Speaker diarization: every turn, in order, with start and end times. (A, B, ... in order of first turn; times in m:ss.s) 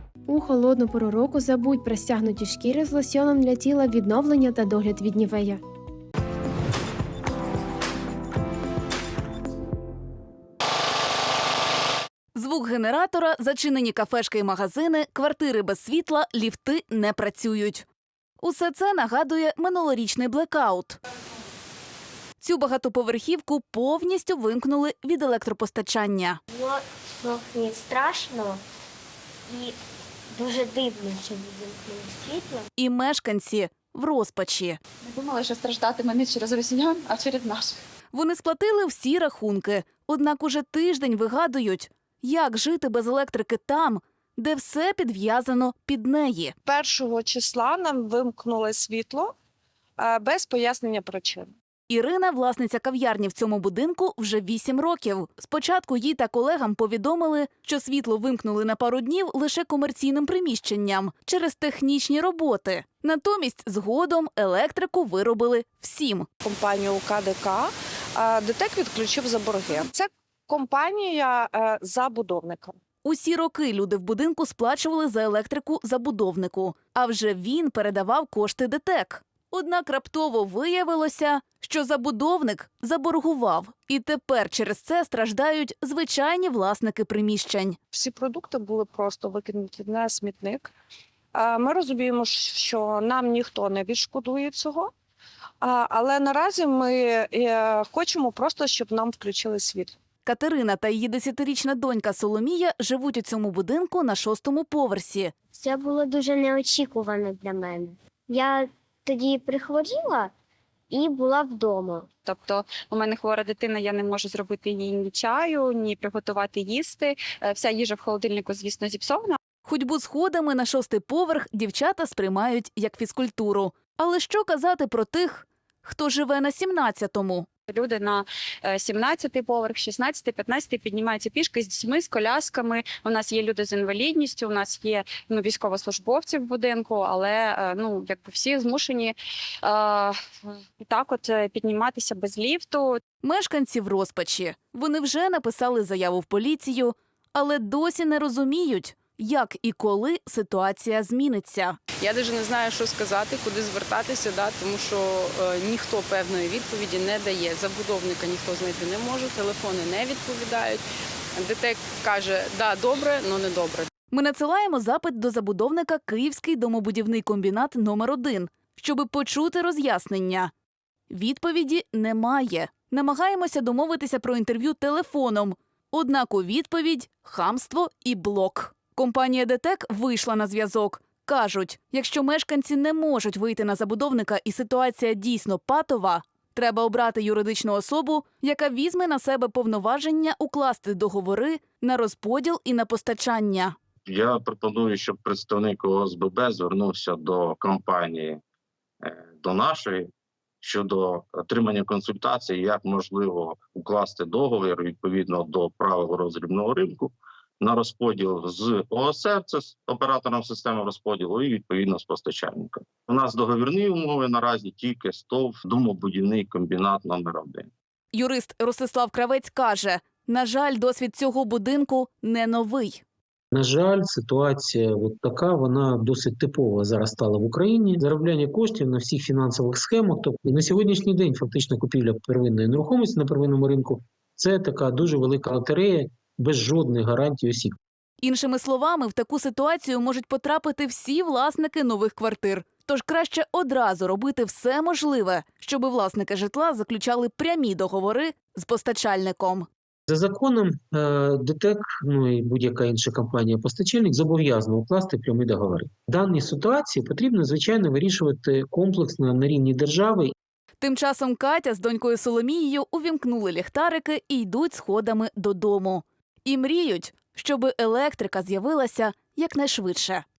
0:00.3-0:05.6 A
0:12.3-0:17.8 B
0:18.4-0:21.0 B
0:22.4-0:26.4 B
0:26.5-0:28.6 C
0:29.5-0:29.8 C
0:30.3-0:32.6 C
0:32.8-0:34.8 B
0:35.0-0:37.8 D
0:38.1-0:46.6 B
0:46.6-0:49.3 E
0:50.0-0:51.5 E
0:51.9-1:06.3 B
1:06.4-1:12.8 E
1:13.0-1:27.8 B
1:27.9-1:30.7 E
1:31.4-1:34.9 E
1:35.6-1:40.0 E
1:40.2-1:45.3 B
1:45.5-1:50.3 C
1:50.9-1:52.1 C
1:52.3-1:59.4 D
1:59.6-2:07.5 B
2:07.7-2:20.2 D
2:20.8-2:23.0 D
2:23.2-2:31.8 B
2:32.0-2:40.8 F
2:41.4-2:43.9 F
2:44.1-2:50.5 B
2:51.1-3:13.8 B
3:14.0-3:18.4 G
3:19.0-3:20.1 G
3:20.6-3:37.7 G
3:38.1-3:43.0 B
3:43.5-3:57.8 H
3:58.2-4:09.7 B
4:10.1-4:20.3 H
4:20.8-4:30.2 B